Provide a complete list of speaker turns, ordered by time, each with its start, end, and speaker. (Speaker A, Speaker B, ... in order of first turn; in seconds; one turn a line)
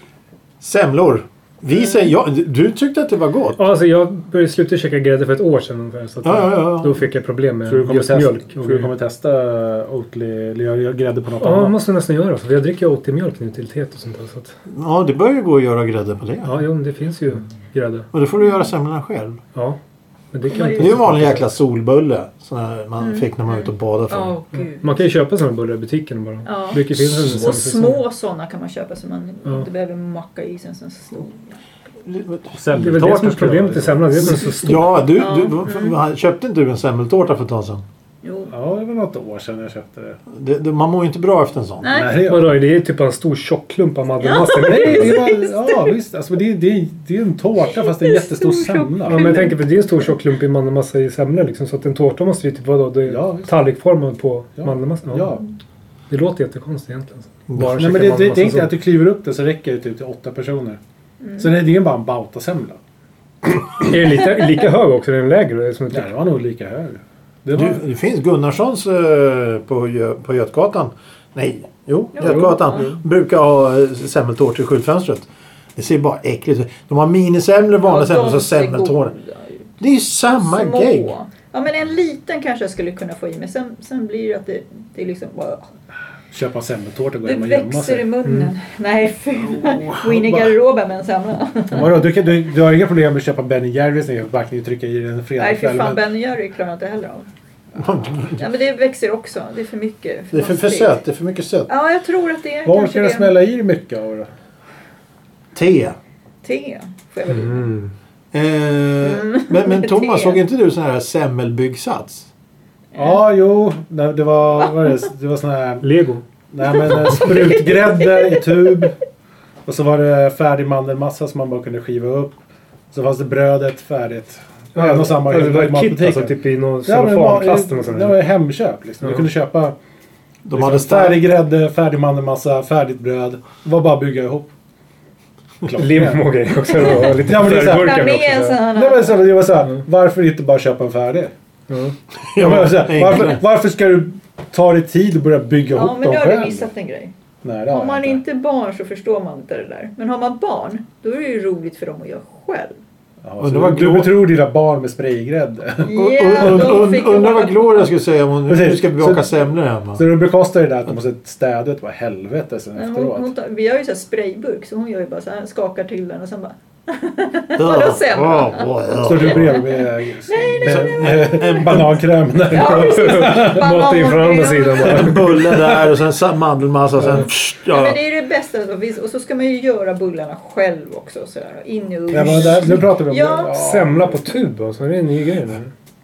Speaker A: 0.6-3.6
Speaker B: 3.6-8.9
Speaker A: 6.2-7.0
Speaker C: 7.7-11.8
Speaker B: 11.4-14.6
Speaker A: 14.7-16.6
Speaker B: 16.4-18.1
Speaker A: 18.1-19.4
Speaker B: 20.3-21.5
Speaker D: 20.5-21.0
Speaker A: 20.8-24.4
Speaker D: 23.0-25.0
Speaker B: 24.7-28.0
Speaker D: 26.4-31.6
Speaker A: 27.1-27.5
Speaker A: 32.0-32.5
Speaker C: 32.5-34.7
Speaker B: 32.7-34.9
Speaker A: 34.6-37.8
Speaker D: 35.1-36.0
Speaker D: 38.2-38.5
Speaker C: 38.5-40.2
Speaker A: 40.3-42.0
Speaker D: 41.8-42.3
Speaker C: 41.9-42.5
Speaker B: 42.2-45.2
Speaker D: 44.2-45.9
Speaker C: 44.2-49.5
Speaker D: 47.6-49.5
Speaker B: 49.0-55.4
Speaker C: 53.1-53.5
Speaker C: 54.6-55.4
Speaker B: 56.1-58.7
Speaker A: 57.5-57.8
Speaker C: 57.7-60.8
Speaker C: 61.4-62.8
Speaker B: 63.8-66.1
Speaker C: 65.9-67.8
Speaker A: 67.5-79.1
Speaker D: 72.1-72.9
Speaker D: 77.8-79.6
Speaker A: 79.8-81.1
Speaker D: 80.3-85.6
Speaker C: 86.3-88.1
Speaker D: 87.2-92.1
Speaker B: 88.2-88.5
Speaker C: 89.6-90.5
Speaker C: 91.7-96.0
Speaker D: 95.4-97.3
Speaker A: 97.8-98.4
Speaker D: 98.4-101.0
Speaker A: 100.3-101.7
Speaker D: 101.7-103.3
Speaker C: 102.6-104.3
Speaker A: 105.5-106.0
Speaker D: 106.4-107.8
Speaker B: 107.3-107.9
Speaker A: 108.3-112.3
Speaker D: 109.0-110.4
Speaker D: 112.9-113.2
Speaker C: 113.0-115.9
Speaker B: 115.8-116.2
Speaker C: 116.5-119.0
Speaker D: 116.9-118.9
Speaker C: 119.7-122.4
Speaker C: 122.9-126.3
Speaker B: 124.7-128.2
Speaker C: 126.8-129.8
Speaker B: 129.0-129.3
Speaker A: 130.4-131.2
Speaker C: 130.5-134.5
Speaker C: 135.6-136.2
Speaker B: 135.8-138.6
Speaker D: 136.6-139.2
Speaker C: 137.2-141.3
Speaker B: 141.7-142.0
Speaker A: 142.3-143.4
Speaker C: 142.3-146.7
Speaker D: 145.7-147.1
Speaker C: 147.4-148.2
Speaker D: 147.7-152.8
Speaker C: 153.2-156.7
Speaker A: 153.4-154.3
Speaker D: 155.8-157.9
Speaker A: 155.9-160.0
Speaker C: 158.5-159.3
Speaker C: 159.9-163.3
Speaker D: 162.8-171.8
Speaker A: 167.6-169.6
Speaker C: 169.0-173.6
Speaker A: 170.6-171.9
Speaker D: 172.5-175.2
Speaker B: 172.5-175.5
Speaker A: 174.8-178.0
Speaker C: 175.3-175.8
Speaker D: 177.7-183.6
Speaker C: 182.1-184.2
Speaker B: 183.5-185.7